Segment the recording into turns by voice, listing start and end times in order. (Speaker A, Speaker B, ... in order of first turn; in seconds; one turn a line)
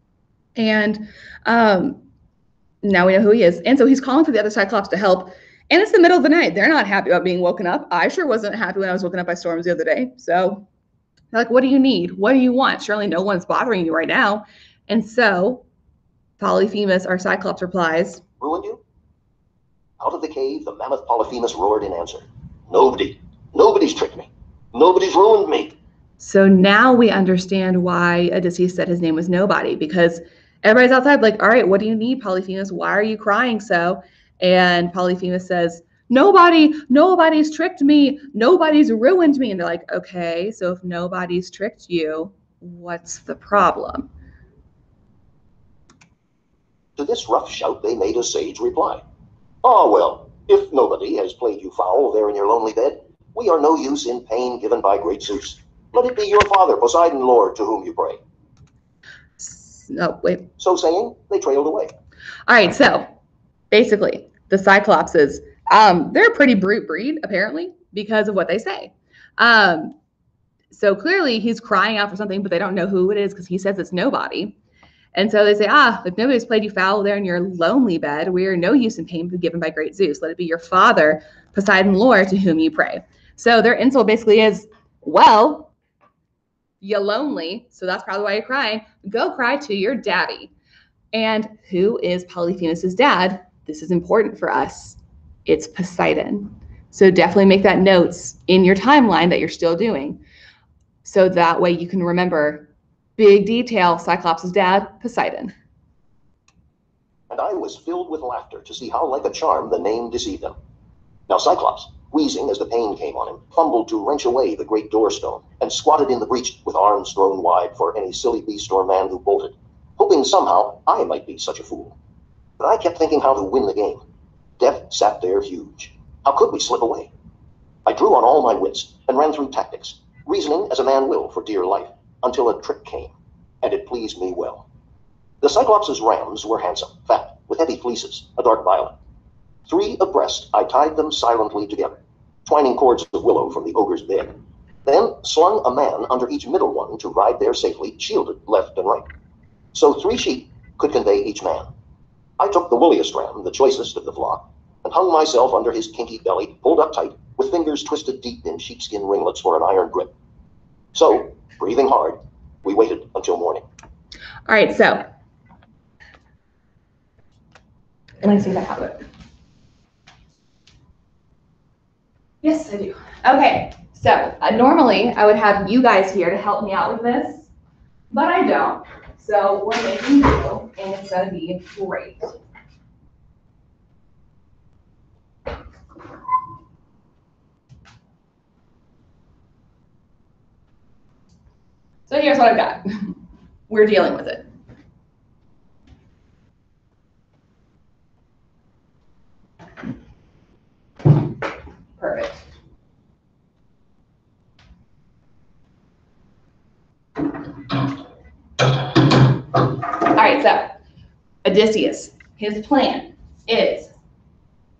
Speaker A: 0.6-2.0
Speaker A: 2.8-10.6
Speaker A: 11.3-15.6
Speaker A: 16.4-18.2
Speaker B: 18.4-18.8
Speaker B: 20.0-25.7
Speaker A: 26.2-44.1
Speaker B: 47.0-49.0
Speaker B: 49.6-58.2
Speaker A: 59.4-60.5
Speaker B: 60.6-61.9
Speaker A: 62.5-63.1
Speaker A: 63.7-69.9
Speaker A: 70.7-74.5
Speaker A: 75.1-85.7
Speaker A: 86.8-90.5
Speaker A: 91.1-100.2
Speaker A: 101.0-105.5
Speaker B: 107.3-110.5
Speaker B: 111.3-122.0
Speaker B: 122.6-124.0
Speaker B: 124.6-127.1
Speaker B: 127.8-134.7
Speaker B: 135.4-138.9
Speaker B: 139.7-149.1
Speaker B: 149.7-151.7
Speaker B: 152.4-160.1
Speaker B: 160.9-163.6
Speaker A: 164.5-165.0
Speaker A: 168.2-169.0
Speaker A: 172.4-177.5
Speaker A: 178.1-182.4
Speaker A: 192.1-193.1
Speaker A: 193.7-194.4
Speaker A: 202.0-202.4
Speaker A: 209.5-210.8
Speaker A: 211.4-213.9